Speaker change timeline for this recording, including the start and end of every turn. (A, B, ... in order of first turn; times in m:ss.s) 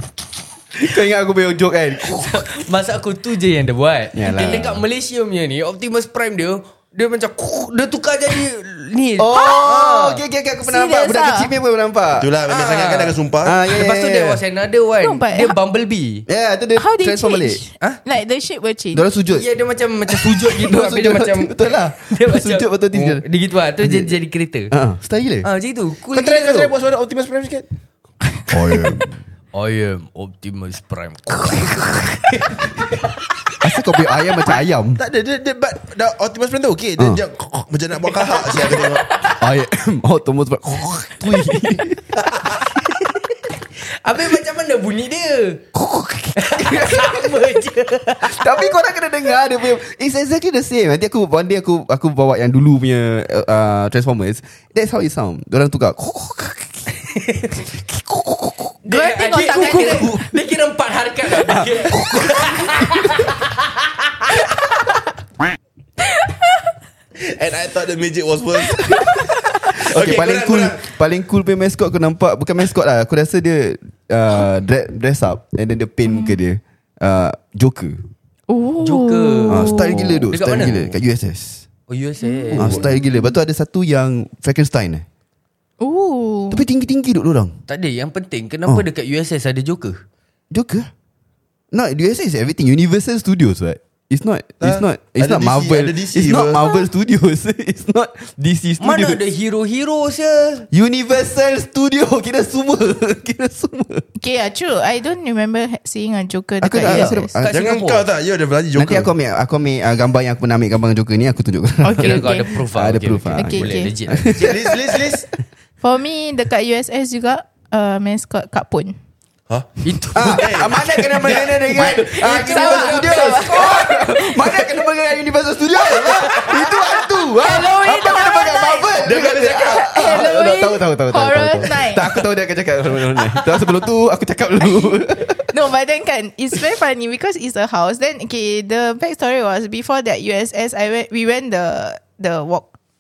0:00.8-0:02.5 A
0:02.1-0:10.2 B
0:04.1-0:04.8 A
0:04.3-0:04.7 C
0:09.2-0:12.3 A
0:10.6-0:11.5 C
0:12.2-0:13.6 D
0:12.5-0:13.2 B
0:13.4-0:14.4 A
0:13.7-0:16.3 B
0:15.0-0:15.6 C
0:16.3-0:17.6 A
0:16.8-0:19.0 C
0:18.9-0:19.5 A
0:19.3-0:24.7 B
0:20.0-0:23.2 A
0:23.8-0:24.2 A
0:24.7-0:25.5 A
0:25.4-0:26.7 B
0:26.1-0:27.7 D
0:28.5-0:29.2 A
0:29.5-0:33.0 B
0:33.6-0:35.0 A
0:35.0-0:39.1 D
0:39.4-0:42.2 A
0:42.2-0:42.6 D
0:42.7-0:45.6 B
0:45.7-0:47.6 A
0:46.4-0:48.7 B
0:48.2-0:56.9 A
0:57.1-0:57.7 B
0:57.7-0:58.7 A
0:58.8-1:03.5 B
0:58.9-1:00.2 C
0:59.6-1:00.2 A
1:01.3-1:03.2 A
1:07.2-1:10.9 D
1:08.8-1:18.0 A
1:16.1-1:16.4 C
1:18.5-1:20.2 C
1:18.8-1:20.8 B
1:19.5-1:21.7 A
1:20.5-1:20.9 D
1:21.9-1:22.9 B
1:22.2-1:23.4 C
1:22.5-1:25.0 A
1:25.8-1:26.6 C
1:26.5-1:27.6 A
1:27.7-1:30.0 B
1:30.5-1:30.9 A
1:31.7-1:39.2 A
1:34.6-1:36.7 D
1:38.8-1:40.7 B
1:40.7-1:44.1 A
1:44.2-1:47.3 C
1:46.6-1:47.6 A
1:46.8-1:48.1 B
1:47.5-1:49.1 D
1:48.8-1:55.2 A
1:51.8-1:52.6 C
1:52.0-1:54.5 B
1:53.4-1:53.9 C
1:54.4-1:55.3 D
1:55.8-1:58.9 C
1:59.5-2:02.0 D
1:59.8-2:03.9 B
2:00.2-2:15.5 A
2:01.8-2:04.8 C
2:06.1-2:06.6 C
2:07.3-2:12.1 C
2:09.0-2:10.2 D
2:14.6-2:22.7 C